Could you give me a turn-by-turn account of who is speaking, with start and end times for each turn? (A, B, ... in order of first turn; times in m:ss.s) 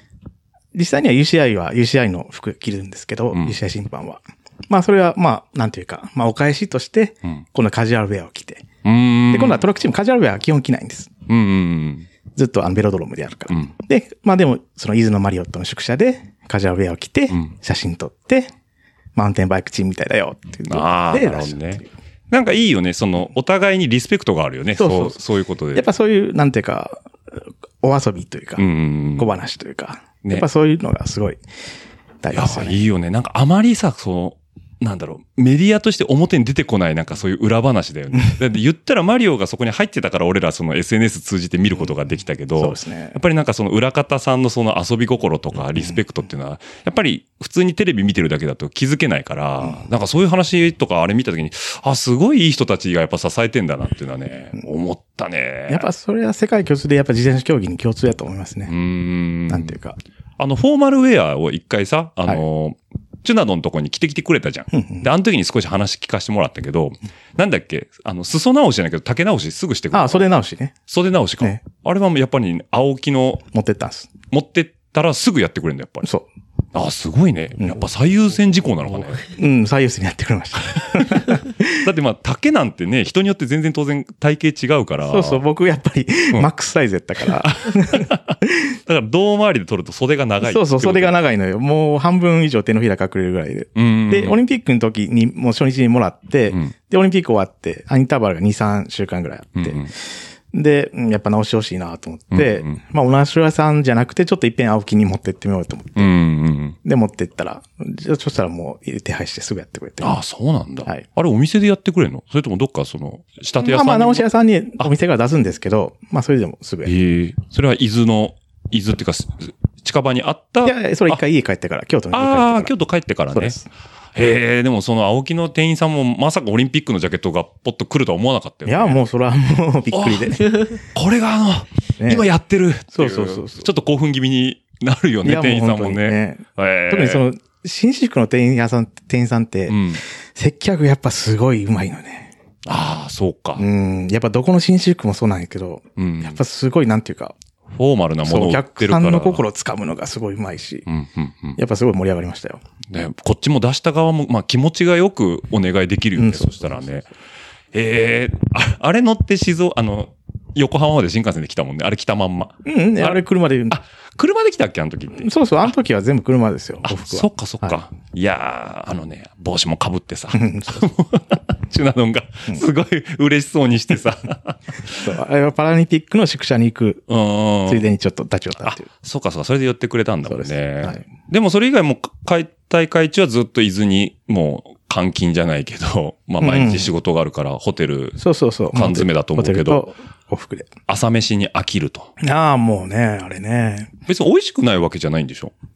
0:00.7-0:08.6 A
0:03.3-0:03.6 B
0:08.8-0:09.6 B
0:09.3-0:11.1 A
0:11.3-0:12.1 B
0:12.3-0:18.5 A
0:19.1-0:21.9 A
0:20.7-0:25.9 B
0:24.8-0:25.2 A
0:25.7-0:31.4 A
0:28.6-0:29.4 B
0:32.2-0:32.8 A
0:32.3-0:55.9 B
0:42.6-0:43.2 A
0:55.7-0:58.7 A
0:58.7-0:59.8 B
0:59.5-1:00.0 A
1:00.4-1:10.3 B
1:04.7-1:05.0 A
1:09.9-1:10.7 A
1:10.9-1:13.4 B
1:13.5-1:14.1 A
1:14.3-1:16.1 B
1:16.7-1:19.2 B
1:19.3-1:21.8 A
1:21.8-1:25.4 B
1:25.0-1:28.7 A
1:27.3-1:31.2 B
1:30.4-1:39.9 A
1:33.8-1:34.4 B
1:39.6-1:39.9 B
1:40.5-1:46.1 A
1:42.3-1:42.8 B
1:46.0-1:46.8 B
1:46.8-1:50.1 A
1:50.0-1:54.3 B
1:53.6-1:56.9 A
1:56.8-2:01.2 B
2:00.6-2:02.7 A
2:02.1-2:03.6 B
2:03.3-2:03.6 A
2:04.1-2:09.0 B
2:08.6-2:10.7 A
2:09.9-2:17.2 B
2:12.0-2:12.3 A
2:12.9-2:13.7 A
2:15.2-2:22.3 A
2:19.7-2:20.0 B
2:22.6-2:23.6 B
2:23.6-2:27.3 A
2:26.0-2:26.4 B
2:27.7-2:29.4 B
2:28.2-2:30.8 A
2:30.8-2:31.6 B
2:31.6-2:32.6 A
2:32.9-2:37.1 B
2:36.2-2:36.9 A
2:37.7-2:45.3 B
2:42.6-2:43.8 A
2:45.2-2:47.8 A
2:46.8-2:55.0 B
2:50.3-2:50.9 A
2:54.9-2:57.0 A
2:57.1-2:57.9 B
2:57.6-2:58.9 A
2:58.6-3:08.2 B
3:00.3-3:01.1 A
3:06.4-3:06.9 A
3:08.2-3:10.7 A
3:08.7-3:09.9 B
3:10.9-3:12.1 B
3:12.2-3:13.9 A
3:14.1-3:15.5 B